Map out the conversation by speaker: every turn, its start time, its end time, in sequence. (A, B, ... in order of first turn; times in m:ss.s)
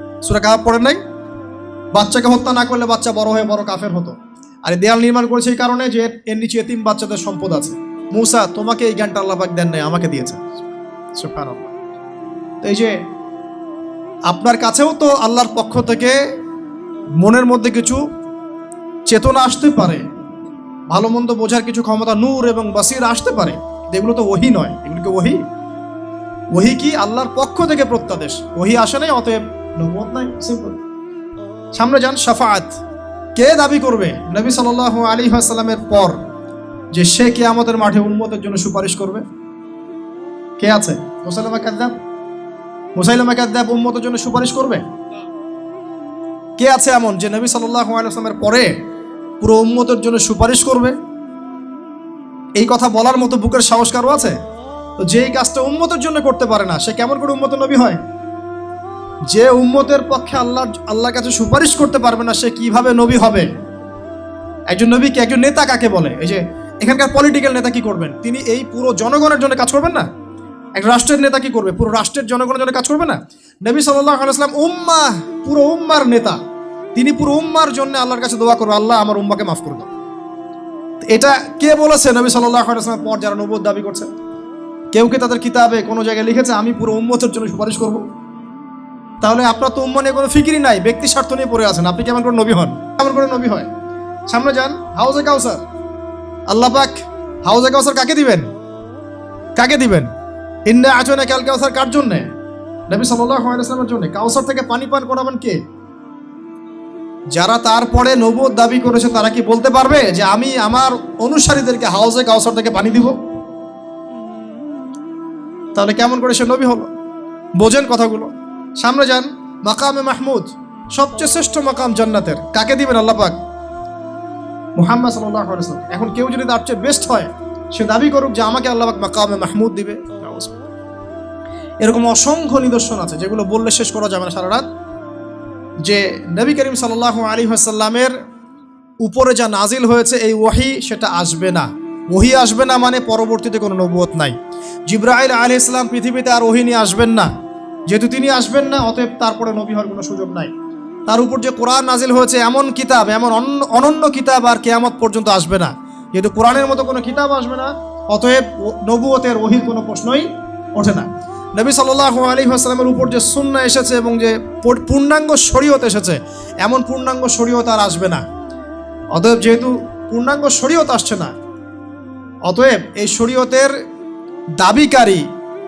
0:00.2-0:01.0 A
0:01.9-0:10.6 A
0:11.1-0:11.7 A
0:12.6-0:13.0 A
0:14.3-0:16.2 A
0:17.2-0:18.0 A
0:19.1-0:20.0 A
0:20.9-0:25.4 A
0:26.5-0:30.8 A
0:31.7-0:32.8 A
0:33.4-0:36.2 A
0:36.9-0:39.2 A
0:40.6-0:42.0 A
0:43.0-0:44.8 A
0:46.6-0:48.7 A
0:49.4-0:51.0 A
0:52.6-0:54.4 A
0:55.0-0:58.0 A
0:59.3-1:03.5 A
1:04.7-1:10.0 A
1:10.8-1:16.4 A
1:16.9-1:19.9 A
1:21.1-1:24.1 A
1:24.9-1:28.0 A
1:29.2-1:33.7 A
1:34.3-1:35.6 A
1:36.5-1:38.4 A
1:39.6-1:40.1 A
1:40.7-1:42.3 A
1:42.9-1:45.6 A
1:47.3-1:53.1 A
1:55.7-1:56.9 A
1:57.6-2:03.4 A
2:04.8-2:10.6 A
2:11.8-2:14.6 A
2:15.8-2:18.1 A
2:19.0-2:24.4 A
2:24.9-2:27.3 A
2:27.9-2:30.5 A
2:31.1-2:48.2 A
2:49.1-2:51.3 A
2:52.4-2:53.7 A
2:54.6-2:55.2 A